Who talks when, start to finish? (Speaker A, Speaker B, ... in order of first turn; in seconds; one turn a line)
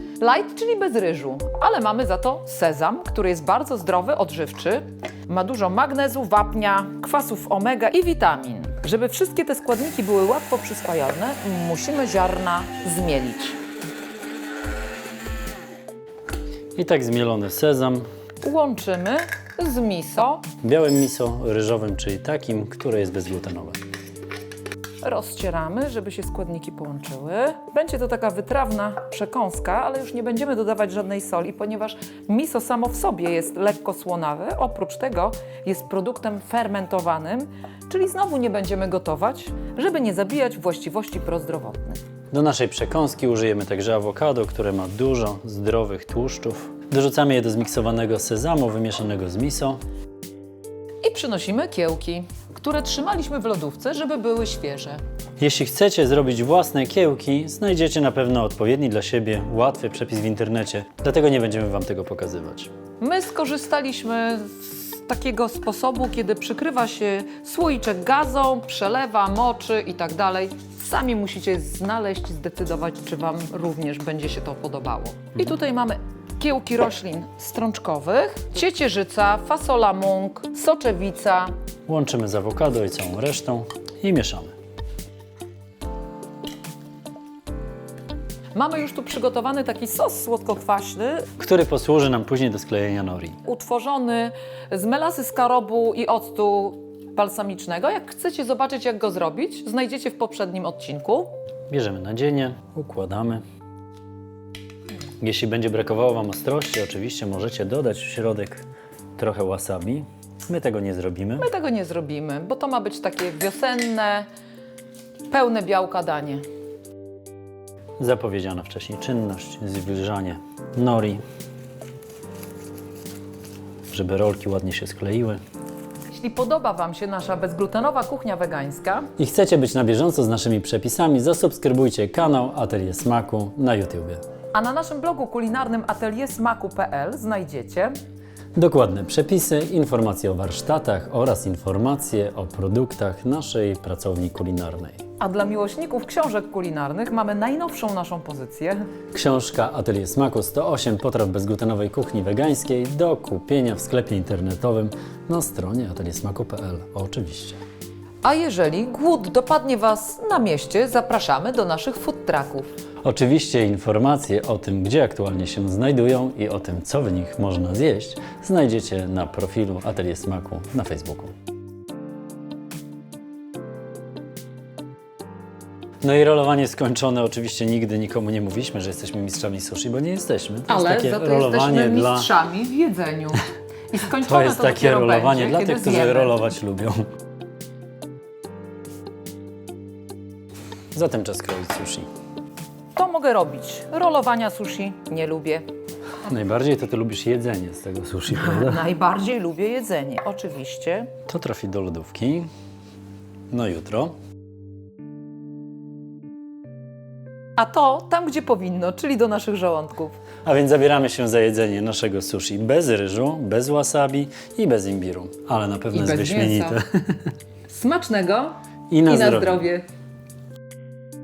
Speaker A: 0.2-13.6
Speaker B: 16.7-18.1
Speaker A: 18.4-20.4
Speaker B: 20.6-23.8
Speaker A: 25.0-42.0
Speaker B: 42.3-49.8
Speaker A: 51.0-55.0
Speaker B: 55.4-62.7
Speaker A: 63.0-81.5
Speaker B: 81.9-84.5
Speaker A: 88.5-91.3
Speaker B: 91.4-93.4
Speaker A: 93.4-101.3
Speaker B: 101.7-103.4
Speaker B: 105.2-108.6
Speaker B: 109.2-111.5
Speaker A: 111.4-114.3
Speaker A: 115.3-116.4
Speaker B: 118.0-121.2
Speaker B: 123.9-125.4
Speaker A: 126.1-129.1
Speaker B: 129.2-134.2
Speaker A: 134.5-137.9
Speaker B: 138.6-145.0
Speaker A: 145.2-148.8
Speaker B: 149.1-157.6
Speaker A: 158.2-162.7
Speaker B: 163.0-171.3
Speaker B: 176.0-182.3
Speaker A: 180.7-186.4
Speaker B: 184.2-187.1
Speaker B: 190.9-192.1
Speaker A: 192.9-195.6
Speaker B: 196.2-198.8
Speaker A: 198.3-201.1
Speaker B: 201.3-202.5
Speaker B: 203.5-204.1
Speaker A: 207.6-210.2
Speaker B: 210.4-217.3
Speaker A: 215.9-216.8
Speaker A: 217.7-219.8
Speaker B: 218.9-219.6